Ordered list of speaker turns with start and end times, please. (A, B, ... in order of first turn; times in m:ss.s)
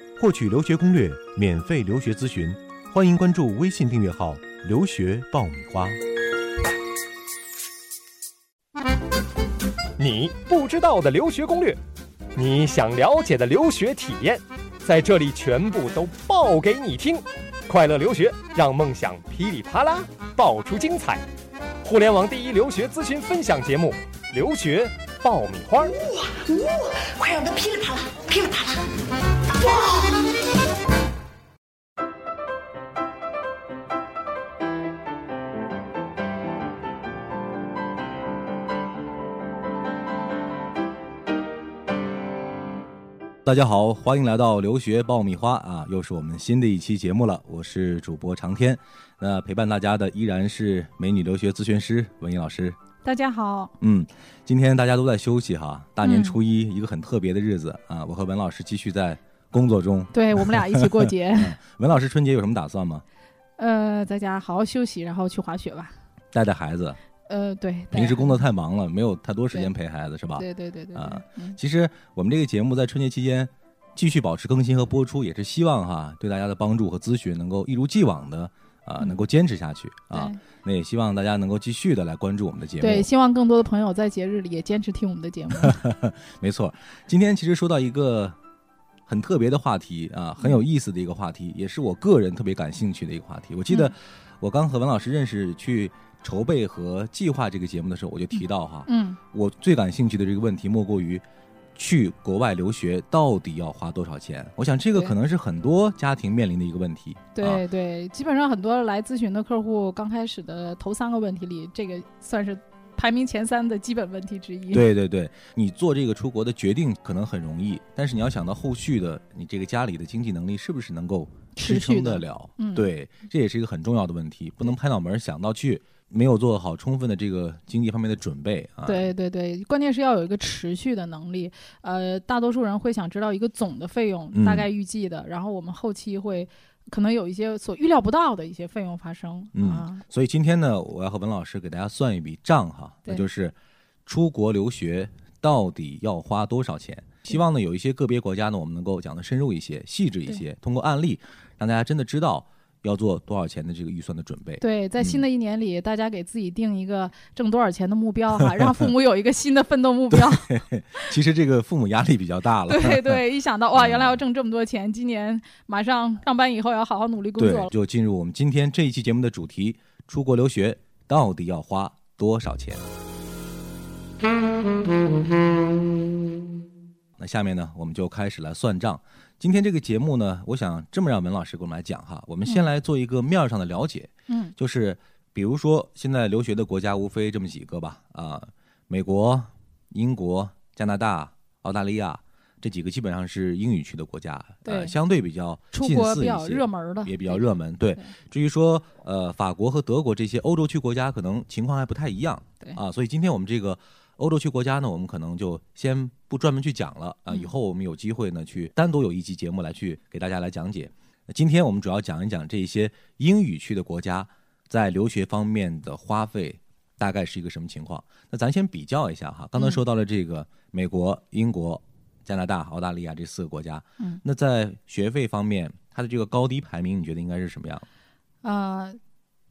0:00.2-0:06.0 A
0:10.0-0:11.8 B
0:12.3-0:21.2 B
0:21.8-0:26.0 B
0:25.8-0:28.9 C
0:29.4-0:30.3 C
0:43.4-0:52.8 A
0:53.0-0:53.7 D
0:53.8-1:03.0 A
0:56.0-0:56.4 D
1:00.1-1:01.6 D
1:03.6-1:05.9 D
1:06.3-1:07.0 A
1:07.3-1:08.4 D
1:07.9-1:23.1 A
1:10.4-1:11.6 D
1:20.1-1:20.4 D
1:22.8-1:25.8 D
1:25.5-1:28.4 A
1:29.1-1:41.2 A
1:38.9-1:39.2 D
1:41.8-1:47.6 A
1:47.3-1:54.9 D
1:54.7-2:09.1 A
2:01.6-2:02.8 D
2:08.8-2:20.0 D
2:14.3-2:14.7 A
2:19.5-2:23.5 A
2:24.1-2:35.2 A
2:34.6-2:41.1 D
2:38.4-2:38.8 A
2:40.1-2:43.2 A
2:42.7-2:47.7 D
2:43.7-2:44.2 A
2:47.4-2:52.9 A
2:57.2-3:47.8 A
3:04.3-3:04.5 D
3:14.6-3:14.9 D
3:15.7-3:18.1 D
3:48.4-3:49.0 D